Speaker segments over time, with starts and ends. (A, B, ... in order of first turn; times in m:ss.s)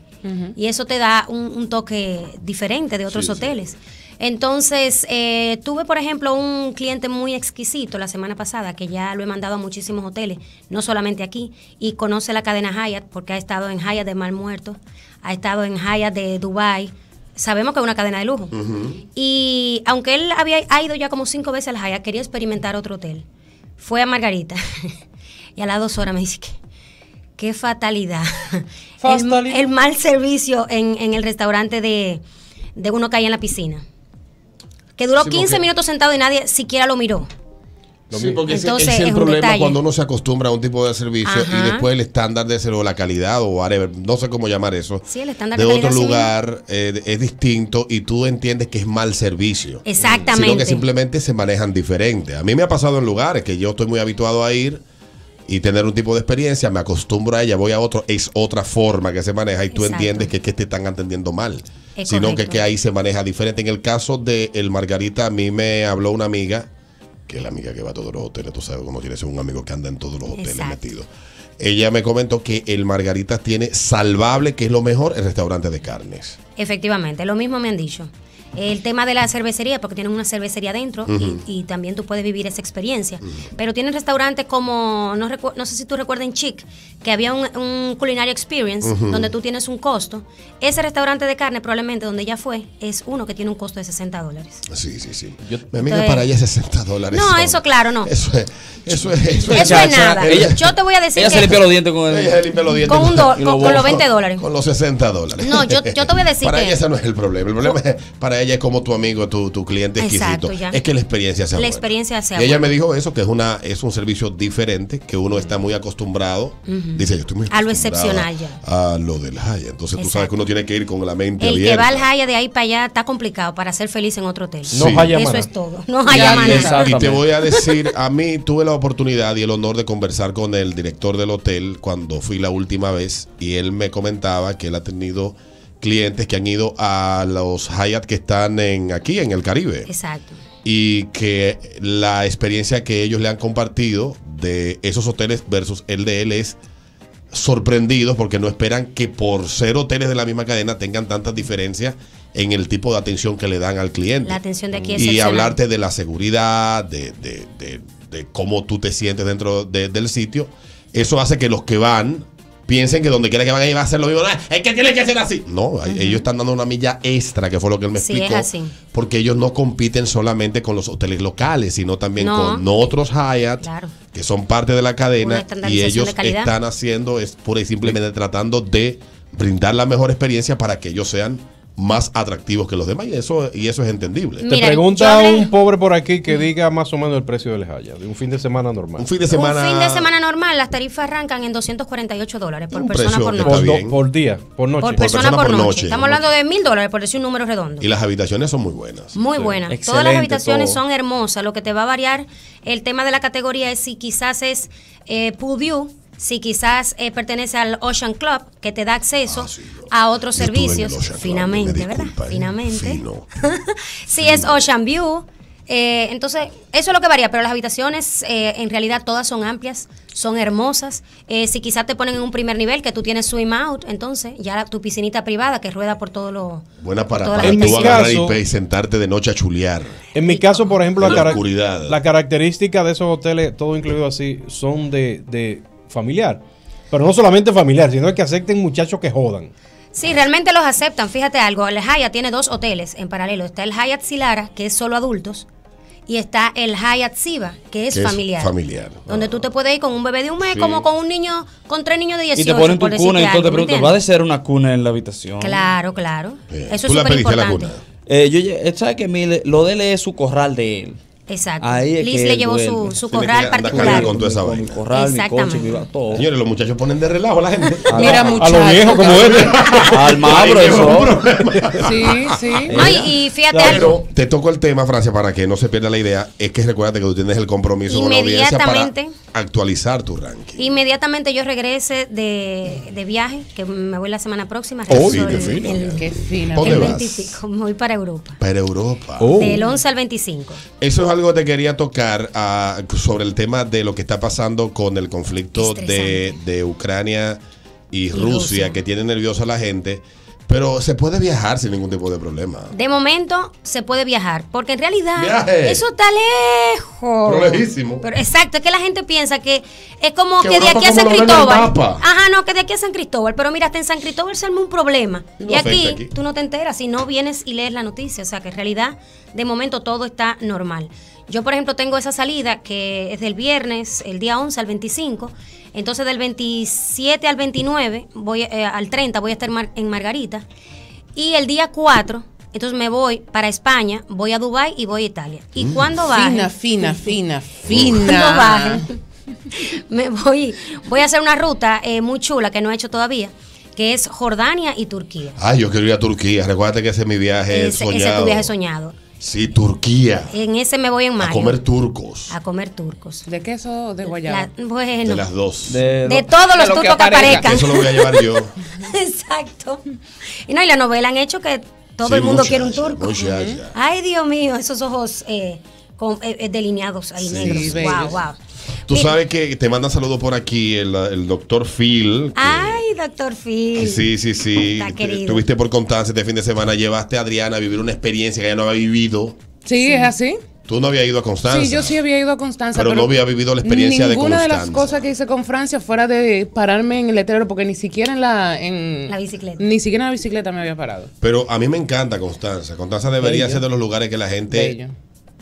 0:00.2-0:00.6 A
0:00.6-0:18.5 B
0:03.1-0:03.6 C
0:18.5-0:19.0 C
0:19.2-0:23.2 B
0:23.8-0:25.0 B
0:25.6-0:26.6 B
0:27.4-0:32.2 B
0:29.0-0:29.6 A
0:32.8-0:33.8 B
0:35.0-0:37.3 B
0:35.2-0:35.6 C
0:38.1-0:54.8 C
0:38.5-0:39.8 B
0:41.2-0:41.9 B
0:45.1-0:46.3 B
0:49.8-0:50.8 B
0:55.5-1:06.7 C
0:59.7-1:00.3 B
1:02.0-1:02.6 B
1:07.3-1:16.4 C
1:10.3-1:10.8 B
1:16.6-1:34.6 B
1:21.1-1:21.4 C
1:28.8-1:29.3 C
1:34.7-1:40.7 C
1:35.8-1:36.2 B
1:37.1-1:38.1 B
1:39.4-1:40.6 D
1:39.5-1:41.6 B
1:41.1-1:42.4 D
1:42.1-2:02.1 C
1:42.9-1:44.4 B
1:43.0-1:44.0 D
1:45.4-1:46.8 B
1:50.0-1:50.8 B
1:51.6-1:52.7 B
1:56.7-1:58.6 B
2:00.0-2:00.3 B
2:01.4-2:07.5 B
2:04.7-2:05.2 C
2:04.7-2:05.5 E
2:06.1-2:07.0 A
2:06.1-2:07.2 D
2:06.2-2:19.9 C
2:19.9-2:20.4 B
2:20.6-2:26.6 C
2:27.3-3:04.5 C
2:34.2-2:35.6 B
2:45.9-2:46.2 B
2:47.9-2:48.8 B
2:52.2-2:52.6 B
2:53.6-2:53.9 B
2:55.2-2:56.5 B
3:04.4-3:09.1 E
3:04.5-3:05.5 B
3:09.0-3:10.1 C
3:09.3-3:13.7 B
3:12.7-3:14.0 C
3:13.4-3:15.1 E
3:14.8-3:17.9 B
3:15.0-3:16.2 C
3:17.8-3:19.2 C
3:19.1-3:48.1 B
3:19.7-3:20.8 D
3:29.2-3:33.3 C
3:34.2-3:34.6 C
3:46.8-3:50.0 C
3:47.4-3:48.4 E
3:50.1-3:59.5 E
3:50.2-3:50.8 B
3:51.0-3:52.0 C
3:59.9-4:05.5 B
4:06.1-4:08.5 B
4:07.9-4:09.4 C
4:09.1-4:14.0 B
4:10.4-4:10.9 C
4:12.4-4:15.6 D
4:15.4-4:17.7 B
4:16.5-4:17.8 C
4:18.1-4:21.0 D
4:21.3-4:24.1 B
4:21.6-4:26.2 D
4:23.4-4:24.8 C
4:24.9-4:25.9 B
4:26.1-4:40.7 C
4:27.9-4:28.4 D
4:27.9-4:29.4 A
4:28.2-4:31.8 E
4:29.8-4:31.2 D
4:31.8-4:32.7 A
4:32.7-4:33.1 D
4:32.7-4:34.0 B
4:33.5-4:33.9 E
4:37.9-4:39.2 B
4:40.6-4:48.4 B
4:44.9-4:45.9 E
4:44.9-4:47.4 C
4:46.0-4:46.9 A
4:48.4-4:49.6 C
4:49.2-4:49.6 E
4:49.4-4:50.6 B
4:50.8-4:57.4 C
4:55.6-4:56.4 B
4:57.9-5:02.7 C
4:58.1-4:58.8 B
5:02.7-5:30.4 B
5:05.2-5:05.8 C
5:07.2-5:08.1 C
5:10.4-5:12.0 C
5:15.4-5:16.1 C
5:31.1-5:36.5 B
5:35.6-5:36.0 C
5:36.1-5:38.9 A
5:37.7-5:38.0 C
5:37.8-5:39.0 B
5:39.5-5:45.4 B
5:45.4-5:48.5 C
5:47.5-5:49.0 B
5:49.2-5:50.4 C
5:50.3-5:51.6 B
5:51.2-5:52.3 C
5:52.3-5:53.2 B
5:53.2-5:54.5 A
5:54.0-5:55.3 B
5:55.0-5:55.8 C
5:55.6-5:56.3 D
5:56.0-5:59.8 B
5:56.5-5:57.6 A
5:57.2-5:58.5 C
6:00.5-6:08.4 B
6:02.0-6:03.8 C
6:07.2-6:08.2 C
6:07.4-6:08.1 A
6:08.9-6:12.8 C
6:12.4-6:15.4 B
6:13.8-6:19.4 C
6:19.6-6:20.4 A
6:19.8-6:20.1 B
6:20.7-6:22.0 C
6:21.5-6:31.1 A
6:22.7-6:25.0 C
6:29.1-6:29.6 B
6:31.2-6:34.8 C
6:33.2-6:33.6 A
6:34.5-6:34.9 A